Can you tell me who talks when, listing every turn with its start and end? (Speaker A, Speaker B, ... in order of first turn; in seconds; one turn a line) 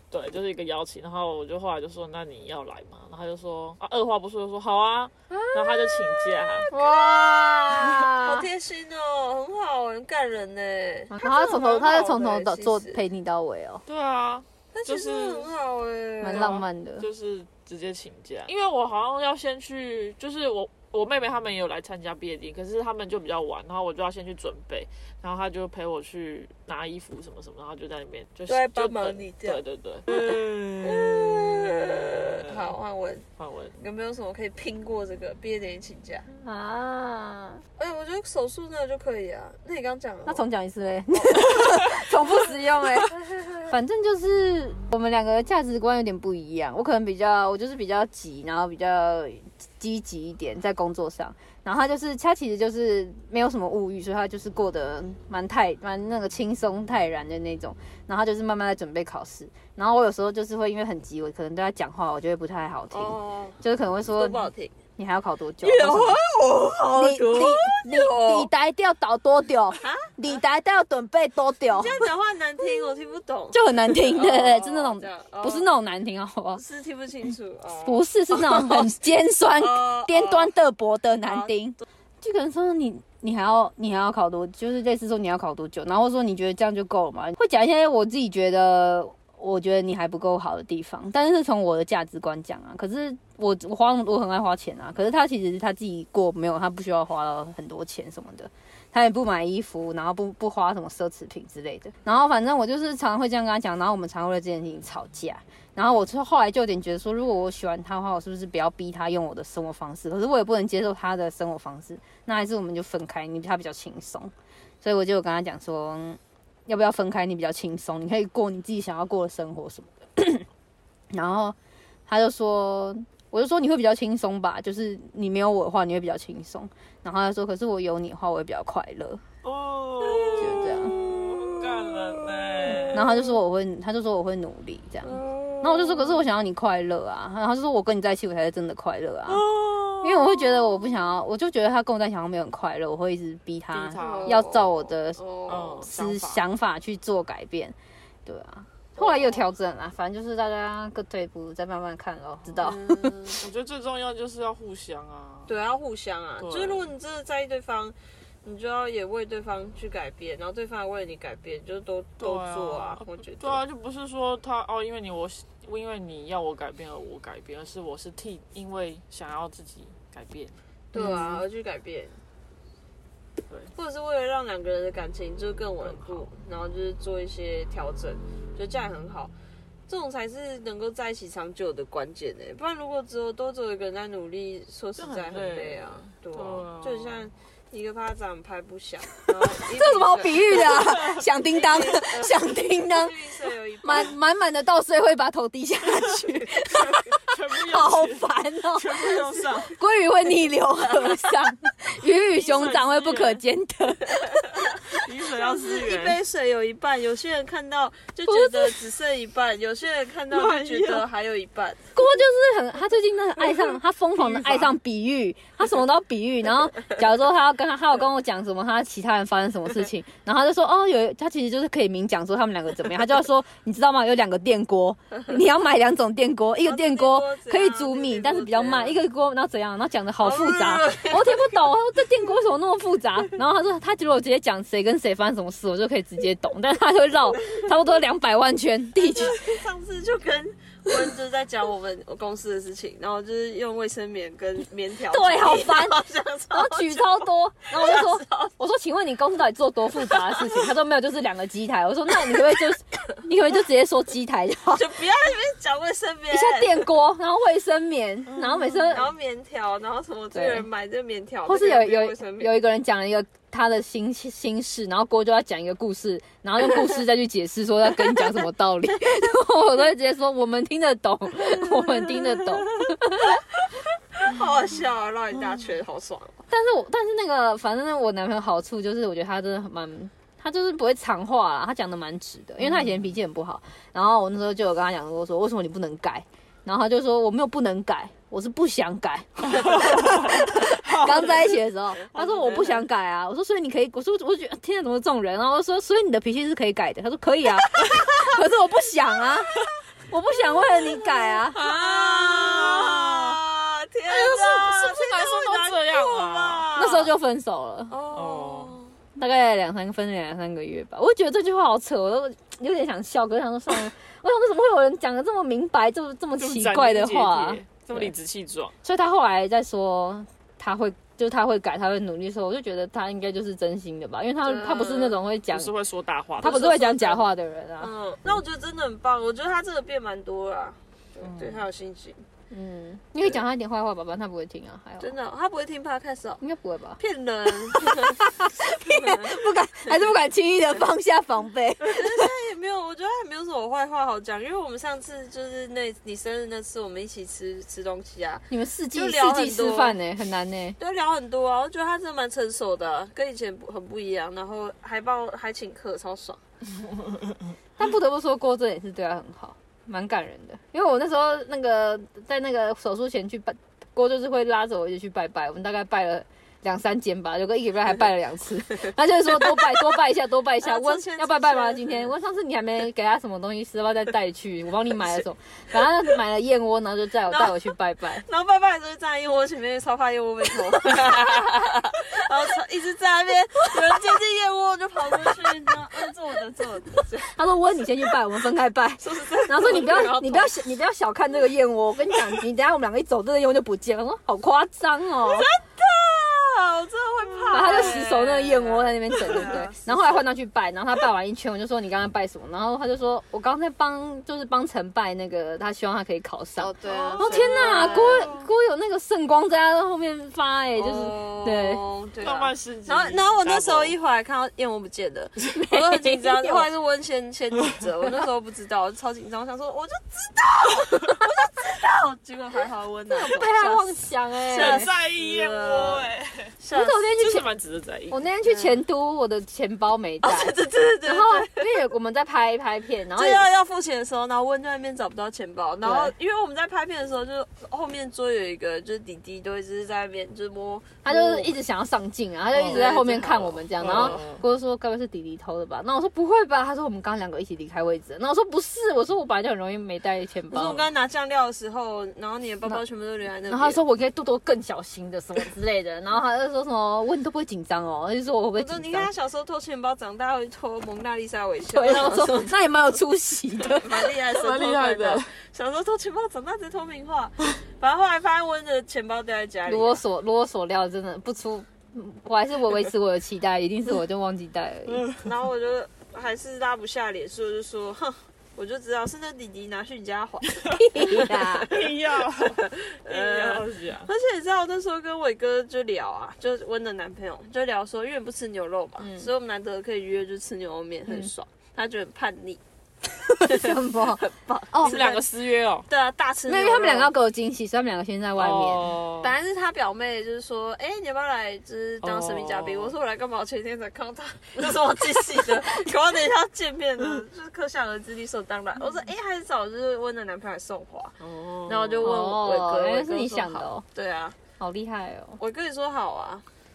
Speaker A: 0.1-6.7
Speaker B: 5.3-5.9
Speaker C: 6.6-13.0
Speaker B: 6.7-8.5
Speaker B: 11.1-13.8
Speaker A: 13.8-15.5
Speaker C: 14.7-16.5
Speaker B: 16.2-17.1
Speaker A: 16.3-32.7
Speaker C: 28.5-33.2
Speaker A: 33.4-33.8
Speaker C: 33.8-36.2
Speaker B: 36.3-37.6
Speaker C: 37.8-40.4
Speaker B: 40.2-66.2
Speaker C: 41.1-42.5
Speaker C: 43.1-43.5
Speaker C: 62.9-63.6
Speaker C: 64.2-64.7
Speaker C: 65.6-68.5
Speaker B: 66.9-72.0
Speaker C: 69.8-70.3
Speaker C: 71.7-75.7
Speaker B: 73.5-76.6
Speaker C: 76.6-78.9
Speaker B: 77.8-120.5
Speaker C: 79.6-80.5
Speaker C: 81.2-81.8
Speaker B: 121.1-121.5
Speaker B: 122.1-129.2
Speaker A: 129.4-133.1
Speaker C: 130.0-133.2
Speaker B: 130.4-130.9
Speaker B: 132.9-139.4
Speaker C: 135.0-136.2
Speaker A: 139.3-140.4
Speaker B: 140.0-145.2
Speaker A: 143.7-144.5
Speaker C: 144.0-145.9
Speaker A: 145.5-146.4
Speaker B: 145.8-147.7
Speaker B: 148.2-153.2
Speaker C: 148.9-149.4
Speaker C: 152.6-153.4
Speaker A: 153.3-155.5
Speaker C: 155.5-163.6
Speaker A: 156.4-156.9
Speaker A: 162.2-170.5
Speaker C: 170.9-172.1
Speaker B: 170.9-171.4
Speaker C: 173.7-179.3
Speaker A: 175.8-176.3
Speaker C: 179.9-194.1
Speaker A: 185.0-187.3
Speaker B: 189.5-193.1
Speaker A: 190.8-191.2
Speaker B: 193.8-204.7
Speaker A: 197.2-199.7
Speaker C: 200.9-201.4
Speaker A: 202.3-203.4
Speaker A: 204.9-206.2
Speaker C: 205.3-211.8
Speaker B: 208.3-208.7
Speaker A: 210.3-211.1
Speaker B: 211.9-239.4
Speaker A: 214.2-214.7
Speaker C: 226.6-229.0
Speaker C: 230.2-231.7
Speaker C: 239.0-248.5
Speaker B: 245.1-254.8
Speaker C: 250.1-250.7
Speaker C: 254.7-256.9
Speaker B: 256.3-259.1
Speaker A: 258.3-259.0
Speaker C: 258.9-262.6
Speaker B: 260.3-260.6
Speaker B: 261.5-273.4
Speaker C: 271.6-273.4
Speaker C: 274.1-276.4
Speaker B: 276.5-301.6
Speaker A: 282.6-283.1
Speaker A: 289.6-291.1
Speaker C: 292.1-292.8
Speaker C: 301.5-307.1
Speaker A: 301.5-303.4
Speaker A: 304.1-306.7
Speaker B: 306.8-307.9
Speaker C: 307.9-308.9
Speaker A: 308.1-308.8
Speaker B: 309.2-318.1
Speaker A: 316.4-318.7
Speaker B: 318.8-325.7
Speaker C: 324.4-325.2
Speaker A: 325.5-327.1
Speaker B: 326.4-327.9
Speaker C: 326.4-327.2
Speaker C: 327.8-332.2
Speaker B: 332.5-335.1
Speaker C: 335.0-336.4
Speaker B: 336.4-337.0
Speaker C: 337.0-339.9
Speaker B: 337.5-342.3
Speaker C: 341.8-350.0
Speaker B: 348.5-350.8
Speaker C: 350.8-356.4
Speaker B: 357.8-378.2
Speaker C: 370.6-372.1
Speaker C: 377.3-377.7
Speaker C: 378.2-387.4
Speaker B: 387.2-395.5
Speaker C: 389.0-390.6
Speaker C: 395.3-399.9
Speaker B: 397.5-411.8
Speaker C: 406.6-408.4
Speaker A: 406.9-408.4
Speaker C: 410.8-423.9
Speaker A: 412.2-414.0
Speaker B: 415.5-416.6
Speaker B: 423.1-424.9
Speaker C: 424.5-427.1
Speaker A: 424.5-426.5
Speaker B: 426.7-427.4
Speaker A: 427.2-428.2
Speaker B: 428.1-433.4
Speaker C: 428.4-428.8
Speaker C: 430.2-431.8
Speaker C: 433.1-441.5
Speaker B: 435.8-436.1
Speaker B: 441.0-450.8
Speaker C: 442.5-444.3
Speaker A: 443.8-444.4
Speaker C: 450.5-453.8
Speaker B: 453.5-459.1
Speaker C: 458.5-462.6
Speaker B: 461.7-464.1
Speaker C: 463.6-470.0
Speaker A: 464.3-465.3
Speaker B: 469.7-475.1
Speaker A: 474.9-475.2
Speaker C: 475.2-492.6
Speaker B: 480.7-481.7
Speaker A: 481.7-484.1
Speaker B: 489.0-489.3
Speaker B: 493.3-495.0
Speaker C: 493.4-495.3
Speaker A: 494.8-495.9
Speaker C: 495.9-497.1
Speaker B: 496.5-498.9
Speaker A: 498.4-499.3
Speaker C: 499.2-514.4
Speaker A: 502.0-502.9
Speaker A: 511.2-512.1
Speaker B: 512.0-513.8
Speaker B: 514.6-515.4
Speaker C: 515.4-516.4